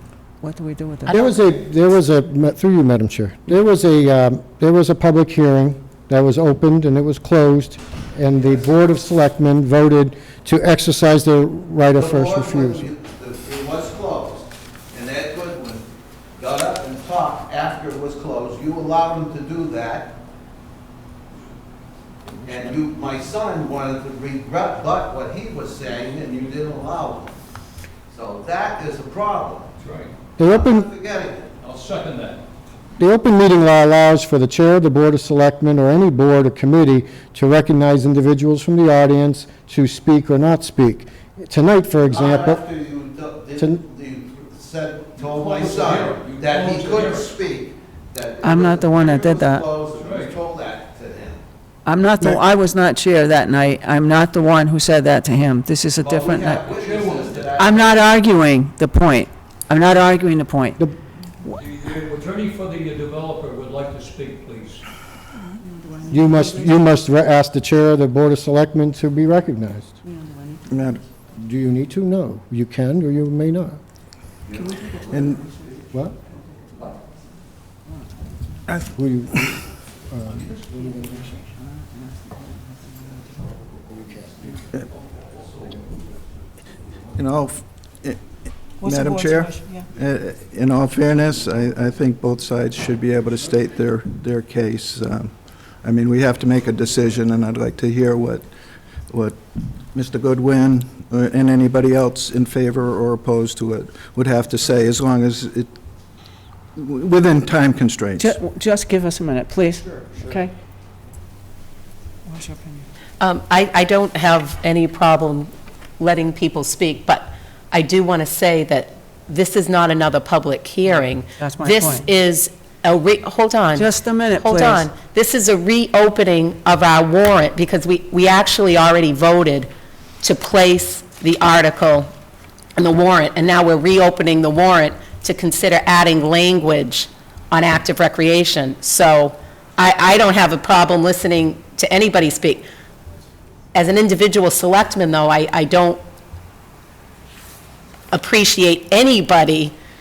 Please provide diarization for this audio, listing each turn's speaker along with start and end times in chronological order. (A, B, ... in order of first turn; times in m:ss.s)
0:00.4-0:01.2 A
0:01.1-0:01.3 B
0:01.1-0:12.9 C
0:12.0-0:20.2 D
0:22.4-0:27.3 D
0:28.1-0:29.7 D
0:29.8-0:30.1 E
0:30.4-0:30.9 C
0:30.4-0:31.5 D
0:31.6-0:32.4 E
0:33.0-0:42.6 C
0:42.1-0:51.4 D
0:43.6-0:43.8 C
0:45.2-0:47.3 E
0:48.4-0:49.7 A
0:49.9-0:50.4 E
0:51.8-0:56.7 A
0:56.0-0:57.9 D
0:56.7-0:57.7 E
0:57.6-1:00.8 A
1:01.6-1:04.8 E
1:05.5-1:06.8 A
1:06.1-1:10.0 C
1:10.0-1:10.6 A
1:10.7-1:11.0 F
1:11.3-1:13.8 C
1:15.1-1:15.4 F
1:15.9-1:16.2 C
1:18.9-1:20.4 C
1:20.3-1:21.1 E
1:25.1-1:25.7 E
1:27.2-1:28.2 F
1:28.8-1:38.5 F
1:28.8-1:29.8 A
1:39.1-1:39.4 F
1:39.9-1:45.7 F
1:46.8-1:48.3 F
1:48.2-1:50.5 A
1:52.2-1:52.8 A
1:53.2-2:09.7 B
2:01.4-2:02.1 A
2:03.7-2:04.9 A
2:10.2-2:12.1 B
2:12.8-2:22.6 B
2:23.7-2:26.0 B
2:28.1-2:29.7 B